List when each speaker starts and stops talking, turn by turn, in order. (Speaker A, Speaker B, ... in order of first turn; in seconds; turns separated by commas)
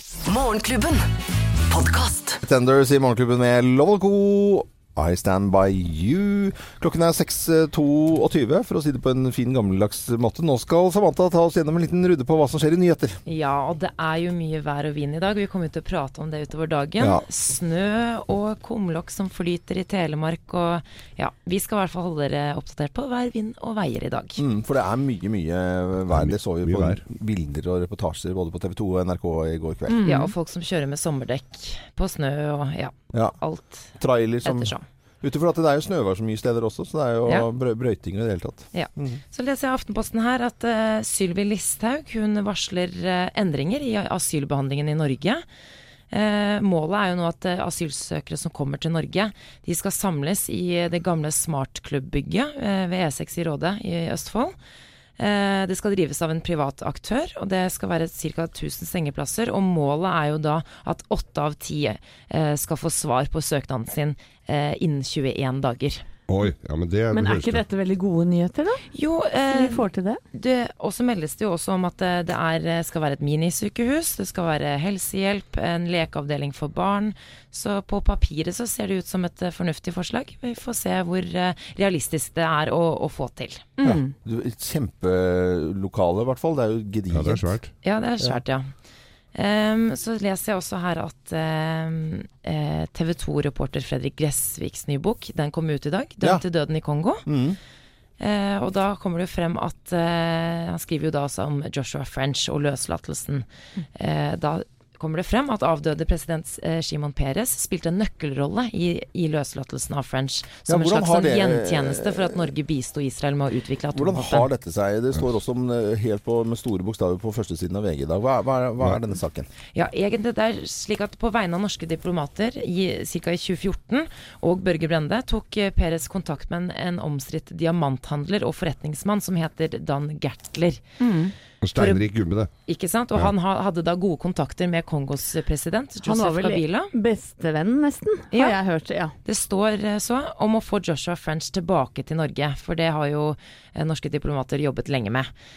Speaker A: 0.2-2.4, Speaker B: 2.4-13.2, Speaker C: 13.2-24.4, Speaker B: 17.0-17.2, Speaker B: 24.4-30.0, Speaker D: 26.1-27.0, Speaker E: 29.9-30.3, Speaker C: 30.0-33.9, Speaker B: 33.9-39.2, Speaker C: 34.4-34.8, Speaker C: 38.7-45.4, Speaker C: 46.1-54.5, Speaker C: 55.2-66.0, Speaker D: 66.3-67.6, Speaker E: 67.1-68.8, Speaker C: 68.9-83.7, Speaker E: 69.5-70.2, Speaker E: 83.8-84.1, Speaker B: 83.8-87.6, Speaker D: 87.1-87.7, Speaker C: 87.8-88.7, Speaker C: 89.3-97.3, Speaker B: 97.2-97.6, Speaker C: 98.2-114.5, Speaker B: 110.7-112.5, Speaker B: 113.9-119.5, Speaker C: 119.7-130.8, Speaker E: 131.0-131.3, Speaker D: 131.6-132.5, Speaker C: 131.7-132.0, Speaker C: 132.7-136.9, Speaker E: 136.0-139.1, Speaker C: 138.3-138.6, Speaker C: 139.2-145.3